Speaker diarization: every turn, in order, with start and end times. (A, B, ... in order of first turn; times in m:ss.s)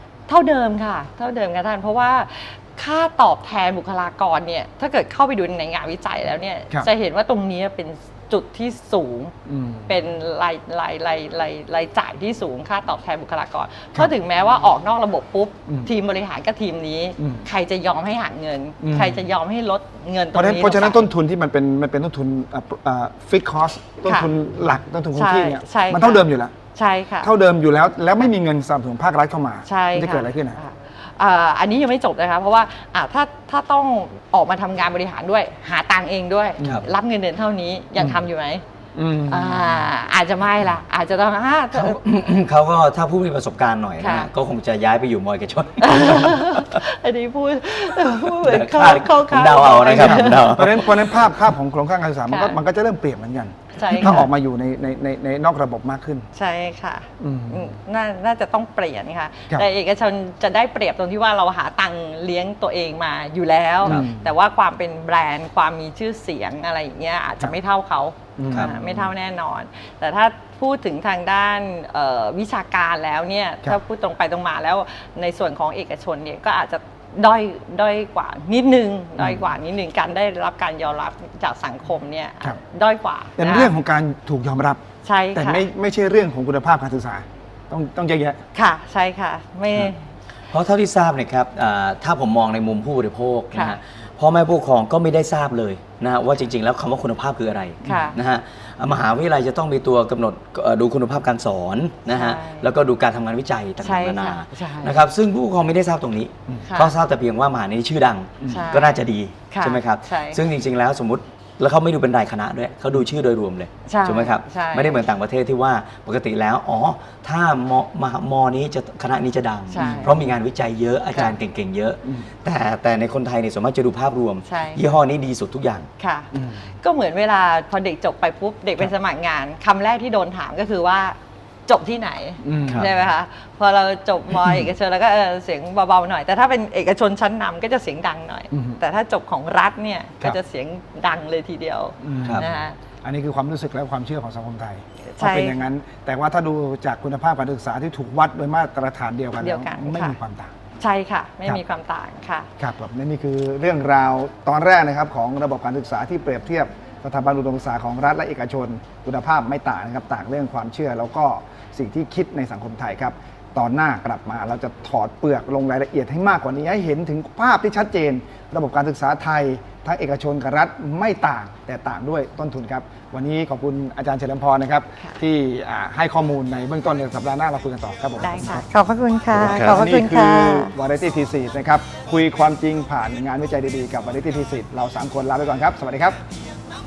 0:00.3-0:09.4 A
0:09.5-0:10.0 B
0:09.9-0:21.1 A
0:17.2-0:17.4 B
0:18.8-0:19.2 B
0:20.3-0:26.6 B
0:24.0-0:24.3 A
0:25.1-0:27.3 A
0:27.2-0:30.6 B
0:29.7-0:38.6 A
0:36.6-0:36.8 B
0:39.0-0:39.9 B
0:39.2-0:42.0 A
0:41.7-0:46.8 C
0:44.0-0:44.3 A
0:45.8-0:50.6 A
0:48.1-0:51.0 C
0:49.9-0:56.3 B
0:52.3-0:52.6 A
0:53.7-0:54.3 A
0:56.3-1:23.7 A
0:57.2-0:57.8 B
1:03.8-1:04.3 B
1:08.4-1:09.1 B
1:23.4-1:24.8 B
1:25.0-1:25.6 A
1:25.4-1:28.4 B
1:28.5-1:30.0 A
1:30.5-2:05.9 C
1:37.8-1:38.2 A
1:37.9-1:38.2 B
1:42.1-1:42.7 A
1:43.8-1:45.0 A
1:46.7-1:47.0 A
1:48.4-1:48.7 B
1:48.5-1:50.4 A
1:53.9-1:55.0 A
1:59.7-2:00.2 A
1:59.8-2:00.2 B
2:04.5-2:04.9 A
2:06.0-2:22.8 A
2:06.3-2:06.7 B
2:12.4-2:13.0 B
2:18.5-2:18.8 B
2:22.0-2:22.5 B
2:22.2-2:22.5 C
2:23.0-2:30.5 B
2:25.1-2:25.6 A
2:29.4-2:30.2 A
2:30.8-2:32.5 A
2:32.6-2:58.7 B
2:58.2-3:00.8 A
2:59.3-3:06.2 B